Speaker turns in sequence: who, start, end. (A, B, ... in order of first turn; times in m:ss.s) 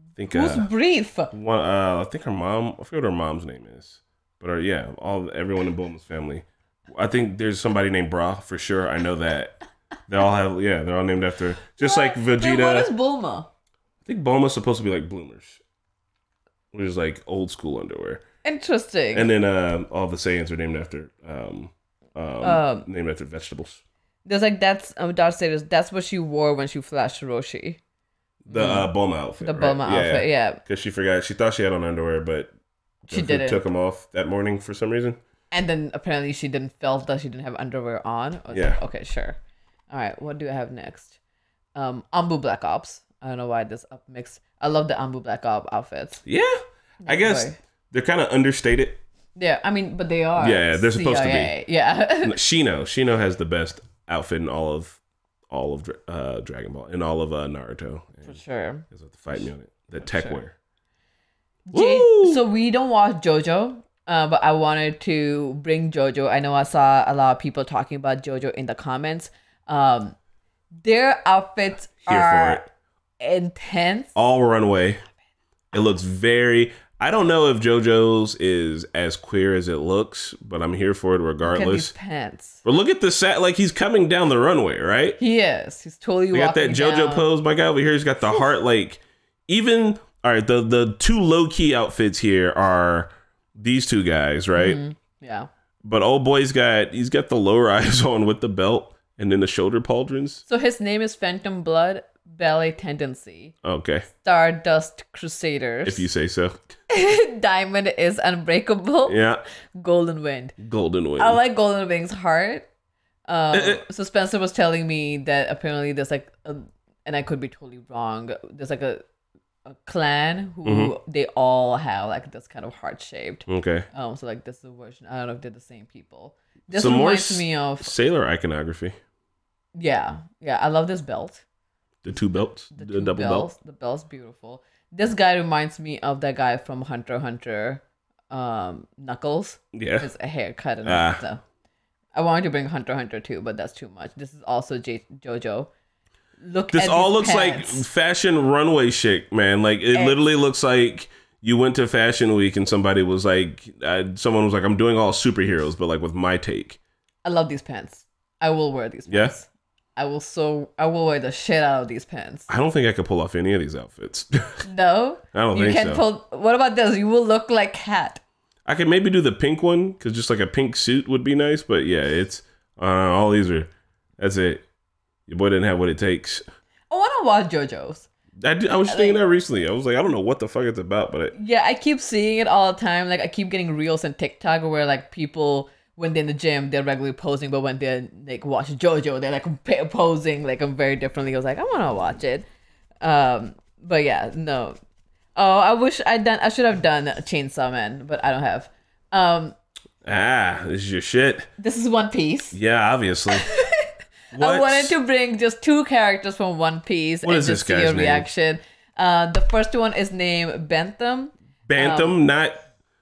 0:00.2-0:00.7 A
0:00.3-0:01.3 B
0:01.3-0:12.9 A
0:11.8-0:13.5 B
0:14.0-0:15.6 A
0:16.7-0:18.2 A
0:18.4-0:19.3 B
0:19.1-0:23.8 A
0:22.4-0:22.8 B
0:24.2-0:27.8 B
0:28.5-0:32.5 A
0:28.5-0:28.9 B
0:29.4-0:30.6 B
0:33.0-0:35.2 A
0:33.1-0:33.6 B
0:35.5-0:39.4 B
0:38.5-0:38.8 A
0:39.9-0:41.2 B
0:41.7-0:46.2 B
0:46.2-0:49.0 A
0:47.0-0:47.6 B
0:49.4-0:52.4 B
0:50.4-0:51.5 A
0:52.2-0:58.4 A
0:58.2-0:58.8 B
0:58.9-1:00.5 A
1:00.0-1:00.4 B
1:01.7-1:10.2 B
1:01.7-1:02.4 A
1:10.8-1:12.6 B
1:12.0-1:12.6 A
1:13.2-1:14.1 B
1:14.1-1:15.0 A
1:15.7-1:21.9 A
1:21.4-1:22.6 B
1:22.6-1:25.2 A
1:25.2-1:27.3 B
1:26.3-1:34.8 A
1:34.5-1:35.5 B
1:35.8-1:40.4 A
1:40.5-1:43.5 B
1:43.6-1:44.1 A
1:44.1-1:46.1 B
1:45.8-1:46.8 A
1:46.9-1:49.2 B
1:49.0-1:49.4 A
1:49.7-1:50.5 B
1:50.6-1:51.4 A
1:51.2-1:52.7 B
1:53.3-1:59.0 B
1:53.5-1:53.8 A
1:59.6-2:07.9 B
2:00.6-2:00.9 A
2:03.5-2:03.9 A
2:06.7-2:09.0 A
2:09.7-2:11.4 B
2:12.0-2:13.5 A
2:12.7-2:21.4 B
2:19.7-2:20.1 A
2:20.8-2:21.2 A
2:22.1-2:25.7 B
2:26.4-2:27.8 B
2:26.7-2:36.8 A
2:37.2-2:42.5 B
2:39.1-2:39.3 A
2:42.5-2:44.6 A
2:44.6-2:48.2 B
2:45.3-2:46.0 A
2:48.6-2:54.6 A
2:55.3-2:56.4 A
2:56.9-2:58.1 B
2:58.4-3:01.3 A
2:58.9-2:59.2 B
3:01.3-3:12.4 B
3:13.0-3:14.8 B
3:15.4-3:19.5 B
3:20.0-3:21.5 A
3:21.6-3:22.6 B
3:22.5-3:23.5 A
3:23.3-3:32.2 B
3:24.3-3:24.9 A
3:27.2-3:28.3 A
3:31.7-3:32.6 A